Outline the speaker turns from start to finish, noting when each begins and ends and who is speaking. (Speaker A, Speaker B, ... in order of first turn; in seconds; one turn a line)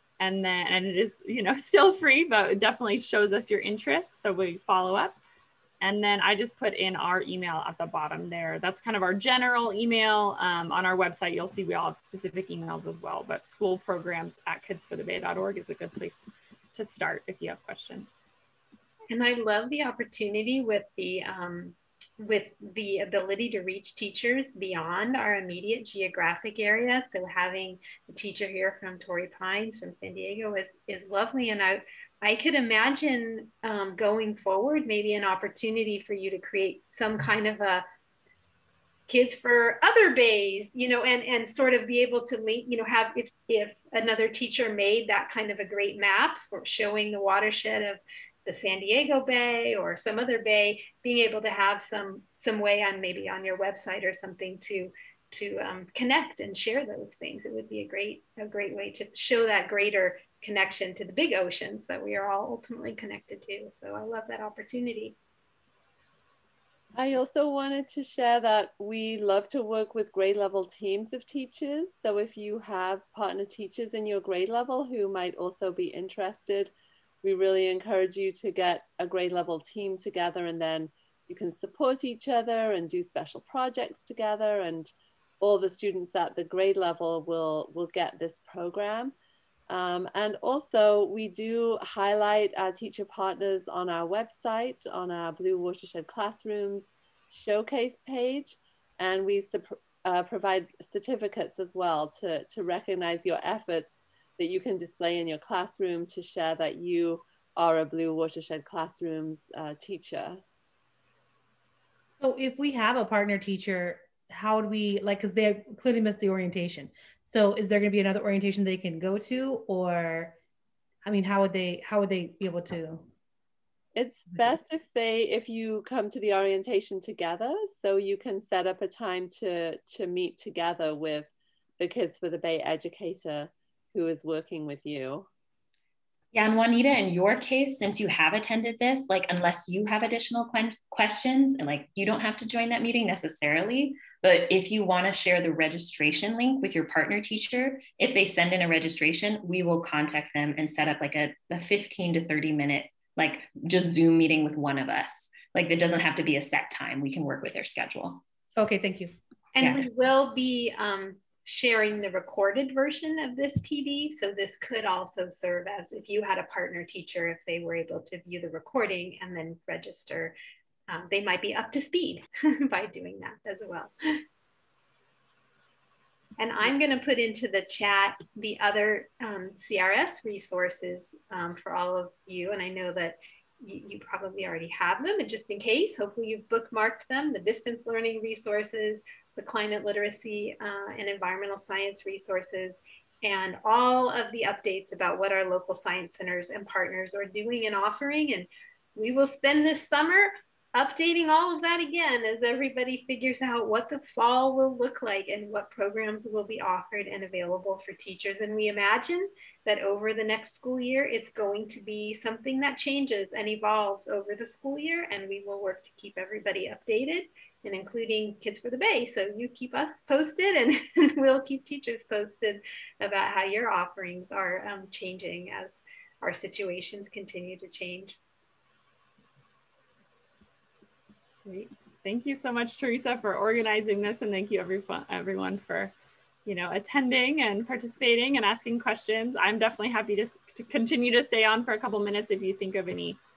Speaker A: 0.2-5.2
Speaker A: 5.8-18.2
Speaker B: 19.1-37.9
Speaker B: 39.1-65.2
Speaker C: 66.9-76.7
Speaker C: 77.2-89.1
Speaker C: 89.7-110.4
Speaker D: 112.2-120.3
Speaker D: 121.0-123.1
Speaker C: 124.0-135.3
Speaker E: 136.3-158.2
Speaker D: 158.6-159.2
Speaker B: 159.6-170.3
Speaker E: 159.6-159.8
Speaker B: 170.9-174.2
Speaker B: 176.4-228.2
Speaker A: 231.4-235.9
Speaker A: 236.5-243.2